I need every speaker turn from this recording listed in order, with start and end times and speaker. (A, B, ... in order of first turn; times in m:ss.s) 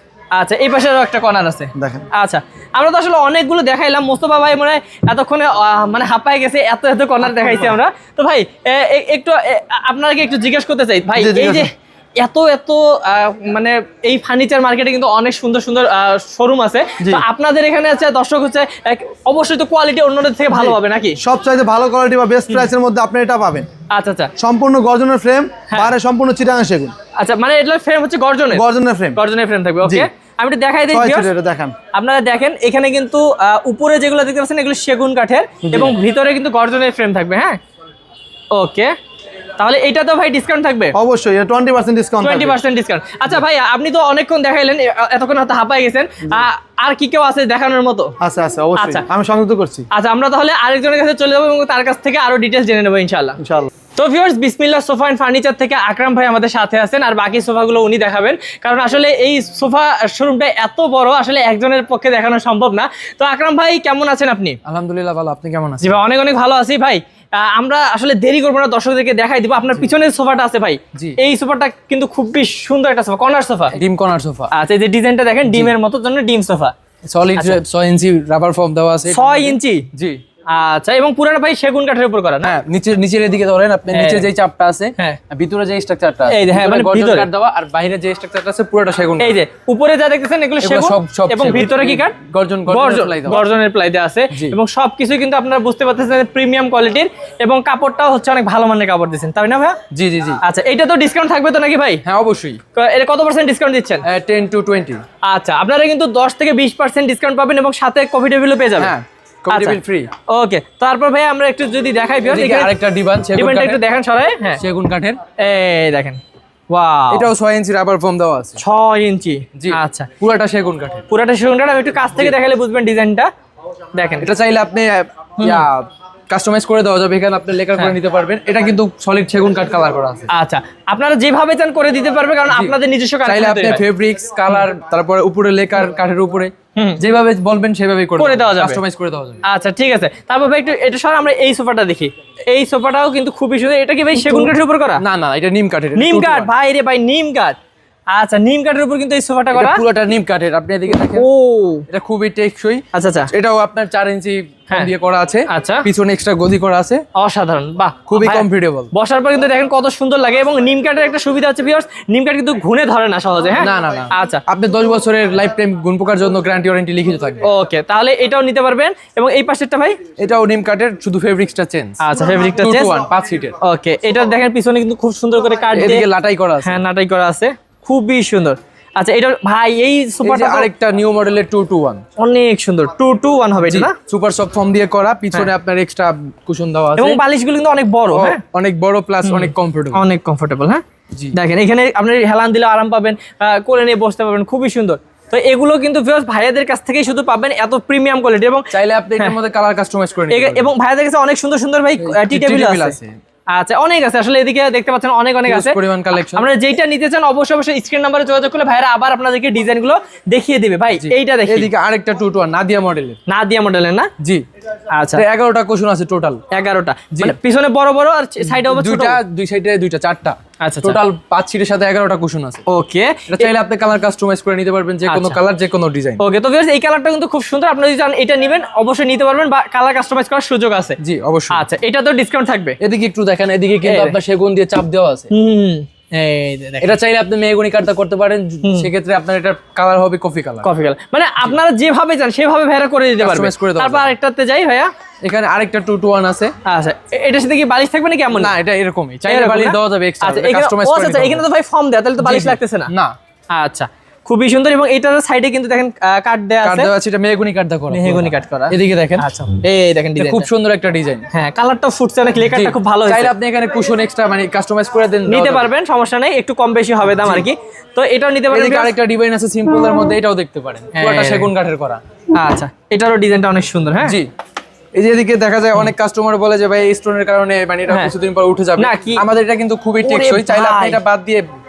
0:00.3-0:21.2 A
0:01.8-0:02.0 B
0:11.2-0:11.7 B
0:20.5-0:23.7 B
0:23.9-0:24.3 A
0:24.4-0:26.9 B
0:27.2-0:28.6 A
0:28.5-0:29.2 B
0:29.2-0:31.3 A
0:30.9-0:31.7 B
0:31.9-0:37.6 A
0:35.6-0:36.0 B
0:38.5-0:38.9 A
0:39.6-0:40.9 A
0:41.0-0:42.6 B
0:42.2-0:48.1 A
0:48.2-0:49.9 B
0:48.8-0:49.0 A
0:49.9-0:53.4 A
0:53.4-0:53.7 B
0:53.9-1:04.6 A
1:04.6-1:06.0 C
1:05.8-1:13.8 A
1:13.7-1:14.5 C
1:14.5-1:16.7 A
1:15.5-1:15.7 C
1:17.1-1:20.2 C
1:17.3-1:17.6 A
1:19.1-1:19.9 A
1:20.5-1:22.5 A
1:22.4-1:29.4 C
1:23.9-1:24.3 A
1:26.3-1:27.3 A
1:29.2-1:32.2 A
1:30.6-1:33.5 C
1:32.7-1:39.8 A
1:39.9-1:40.4 C
1:40.4-1:42.0 A
1:42.0-1:42.6 C
1:42.7-1:44.0 A
1:44.0-1:45.0 C
1:45.3-1:48.9 A
1:48.8-1:50.1 C
1:49.5-1:52.7 A
1:52.2-1:53.8 C
1:53.3-1:54.6 A
1:54.6-1:55.2 C
1:55.4-1:57.3 A
1:57.1-1:58.6 C
1:58.6-2:00.1 A
1:59.6-2:01.0 C
2:01.1-2:03.3 A
2:04.0-2:04.3 A
2:04.2-2:10.3 C
2:05.4-2:05.6 A
2:10.3-2:13.8 A
2:12.5-2:19.4 C
2:18.2-2:18.8 A
2:19.4-2:25.0 A
2:24.1-2:26.5 C
2:25.9-2:27.6 A
2:28.1-2:29.8 A
2:29.5-2:31.2 C
2:31.1-2:31.8 A
2:31.9-2:37.0 C
2:32.9-2:33.3 A
2:35.5-2:35.8 A
2:37.1-2:44.4 A
2:38.1-2:38.9 C
2:43.5-2:47.4 C
2:47.4-2:50.0 A
2:50.2-2:53.6 C
2:52.0-2:53.0 A
2:53.6-2:56.1 A
2:55.7-2:56.8 C
2:56.6-3:00.7 A
3:00.2-3:02.0 C
3:02.2-3:03.9 A
3:03.6-3:07.2 C
3:07.0-3:08.4 A
3:08.1-3:10.0 C
3:09.2-3:19.3 A
3:18.7-3:20.7 C
3:20.3-3:23.0 A
3:22.0-3:23.1 C
3:23.5-3:31.7 A
3:25.5-3:26.4 C
3:31.0-3:33.2 C
3:33.3-3:34.1 A
3:34.2-3:34.4 C
3:34.9-3:35.2 A
3:35.1-3:36.4 C
3:36.5-3:39.2 A
3:38.4-3:42.6 C
3:40.6-3:41.0 A
3:42.7-3:43.5 A
3:43.3-3:46.2 C
3:45.1-3:45.4 A
3:46.2-3:51.0 A
3:51.0-3:51.6 C
3:51.5-3:52.8 A
3:52.8-3:55.3 C
3:53.8-3:54.2 A
3:55.3-3:56.9 A
3:56.8-4:00.7 C
3:58.6-3:58.9 A
4:00.6-4:04.9 A
4:03.2-4:04.1 C
4:05.2-4:06.5 C
4:06.6-4:08.5 A
4:08.3-4:11.4 C
4:09.3-4:12.9 A
4:12.2-4:13.1 C
4:13.5-4:16.9 A
4:16.6-4:19.3 C
4:17.9-4:20.5 A
4:20.2-4:21.3 C
4:21.3-4:23.3 A
4:22.5-4:25.7 C
4:25.2-4:28.9 A
4:28.5-4:32.0 C
4:30.9-4:31.5 A
4:32.3-4:34.2 A
4:34.0-4:34.3 C
4:34.9-4:41.5 C
4:37.9-4:38.1 A
4:38.8-4:39.2 A
4:40.0-4:41.0 A